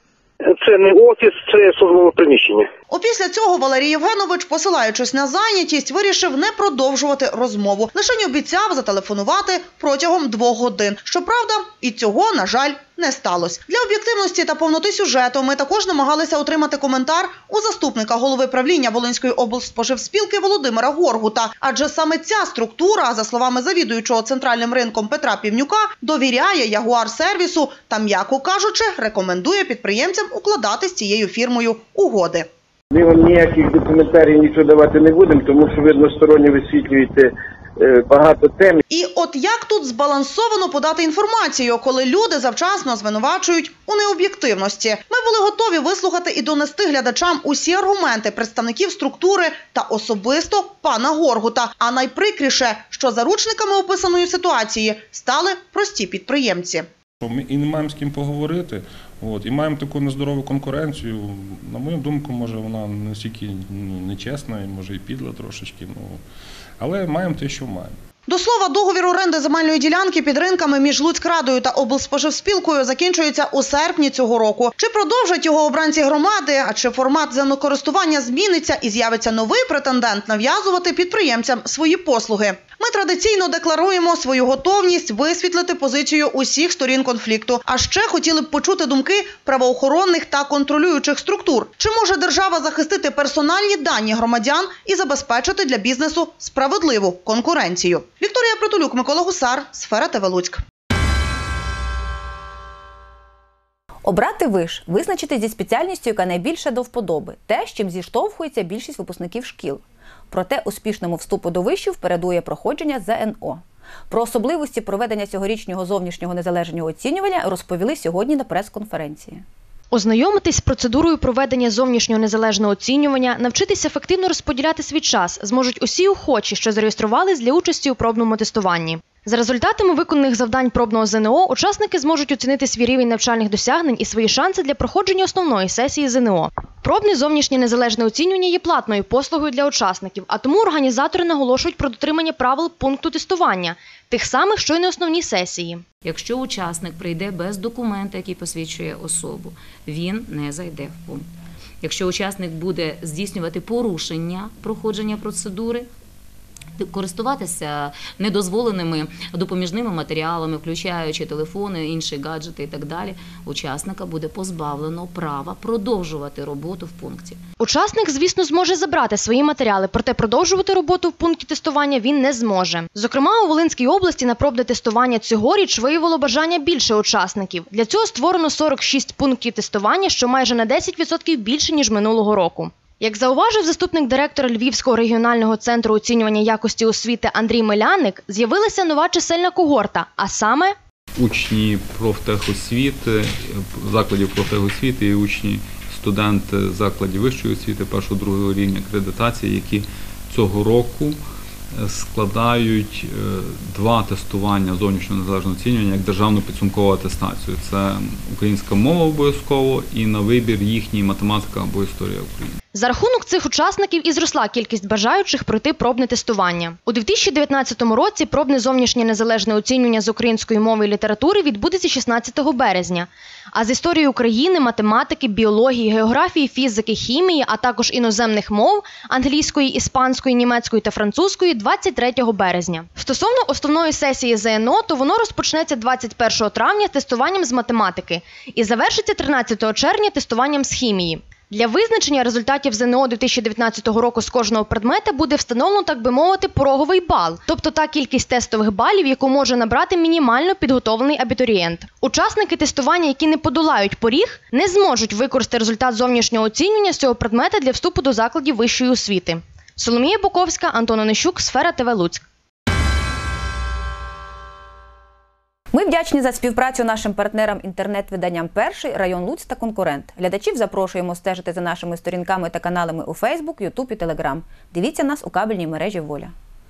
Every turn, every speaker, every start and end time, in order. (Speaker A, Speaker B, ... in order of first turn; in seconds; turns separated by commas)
Speaker A: 0.6-2.6, Speaker B: 2.9-32.5, Speaker C: 32.9-38.8, Speaker B: 38.9-56.9, Speaker D: 57.2-66.2, Speaker D: 66.8-68.0, Speaker B: 68.3-100.6, Speaker E: 104.0-119.4, Speaker F: 119.9-145.8, Speaker G: 146.0-151.3, Speaker G: 151.8-155.9, Speaker G: 156.8-167.4, Speaker F: 167.6-190.7, Speaker H: 191.2-201.2, Speaker H: 201.8-212.5, Speaker F: 212.7-262.2, Speaker E: 265.7-276.3